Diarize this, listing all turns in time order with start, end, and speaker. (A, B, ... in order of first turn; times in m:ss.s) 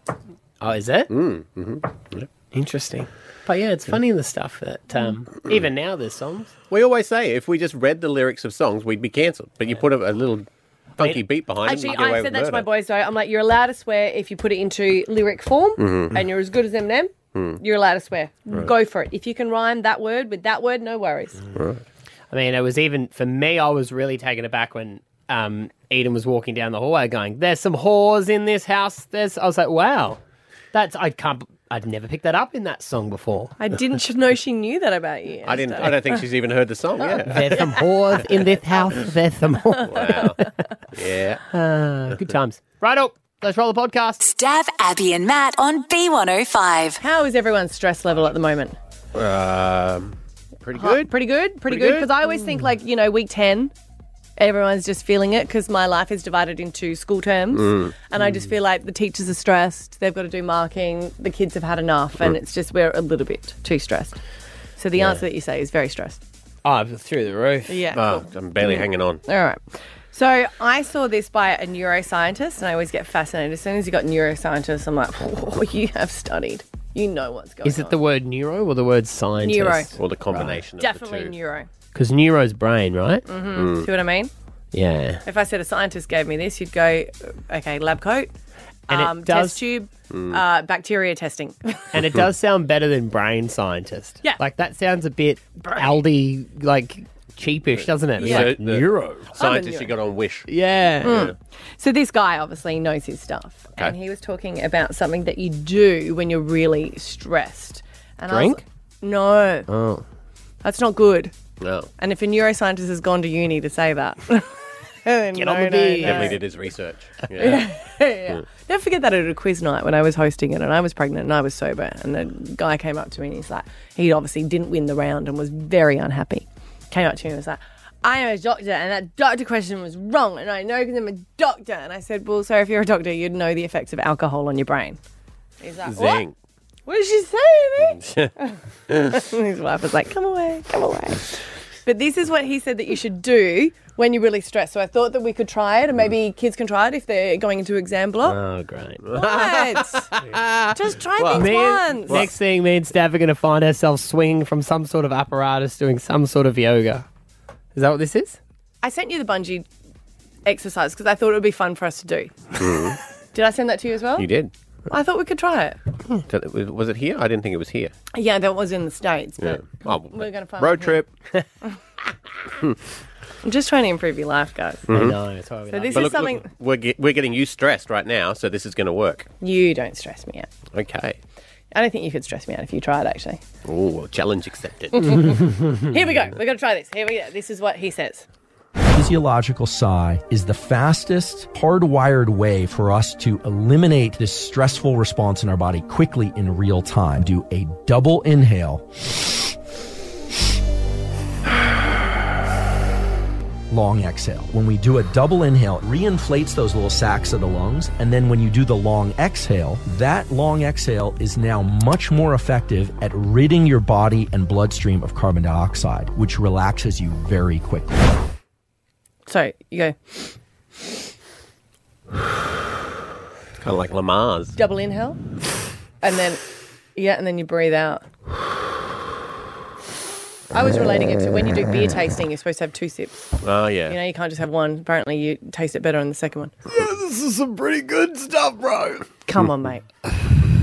0:00.6-0:01.1 A
0:01.1-0:02.3 B
0:02.5-0:06.5 A
0:06.7-0:12.7 B
0:11.6-0:21.4 C
0:15.8-0:16.2 B
0:17.3-0:17.6 B
0:21.5-0:21.8 B
0:22.3-0:30.2 A
0:30.7-0:33.5 A
0:33.6-0:36.2 C
0:35.4-0:37.7 B
0:37.3-0:40.3 A
0:38.7-0:39.0 C
0:39.8-0:40.6 C
0:39.8-0:41.4 B
0:41.5-0:44.2 A
0:44.2-0:47.0 D
0:47.0-0:48.8 C
0:49.1-0:51.1 B
0:50.7-0:53.7 C
0:51.6-0:52.1 B
0:54.4-1:04.1 C
0:57.5-0:57.9 B
1:04.8-1:06.2 C
1:06.6-1:07.8 A
1:07.7-1:18.0 C
1:07.9-1:09.2 B
1:17.6-1:20.6 A
1:19.4-1:19.9 C
1:20.0-1:21.4 B
1:20.8-1:21.7 C
1:21.9-1:23.2 A
1:23.2-1:24.3 C
1:23.5-1:23.9 B
1:24.7-1:25.2 A
1:25.2-1:28.3 C
1:28.9-1:31.9 C
1:28.9-1:29.6 A
1:30.1-1:30.4 B
1:31.9-1:39.3 A
1:35.6-1:35.9 C
1:38.2-1:40.5 B
1:38.2-1:38.5 C
1:39.3-1:39.9 C
1:40.5-1:41.3 A
1:41.0-1:41.3 B
1:41.0-1:49.7 C
1:48.3-1:48.6 A
1:49.7-1:50.0 A
1:50.6-1:51.3 C
1:51.6-1:51.9 B
1:52.0-1:54.5 C
1:55.0-1:56.4 C
1:55.3-1:56.4 A
1:56.0-1:57.7 B
1:57.4-2:15.0 C
2:15.6-2:16.2 C
2:15.8-2:16.3 B
2:16.8-2:18.5 C
2:17.9-2:18.3 B
2:19.1-2:28.4 C
2:28.2-2:29.0 A
2:29.0-2:32.3 B
2:29.1-2:30.1 C
2:30.7-2:32.3 C
2:31.3-2:37.0 A
2:37.7-2:38.4 A
2:38.8-2:39.7 C
2:40.4-2:42.5 C
2:42.6-2:43.0 B
2:43.3-2:44.3 C
2:44.2-2:44.5 B
2:44.9-2:45.8 C
2:46.3-2:47.9 B
2:48.1-2:51.0 C
2:49.4-2:51.1 B
2:53.4-2:54.8 C
2:54.9-2:55.2 B
2:54.9-2:56.3 A
2:55.7-2:56.5 C
2:55.9-2:59.3 B
2:59.4-3:00.5 C
3:00.7-3:01.2 B
3:01.7-3:03.4 C
3:03.6-3:05.4 B
3:05.0-3:08.2 C
3:08.9-3:18.8 E
3:23.7-3:37.9 E
3:39.3-3:40.1 C
3:43.6-3:44.6 B
3:44.5-3:45.2 C
3:46.0-3:46.4 C
3:46.9-3:48.1 C
3:50.5-3:53.4 C
3:53.4-3:54.0 B
3:53.9-3:56.5 C
3:56.7-3:59.0 A
3:59.2-3:59.8 C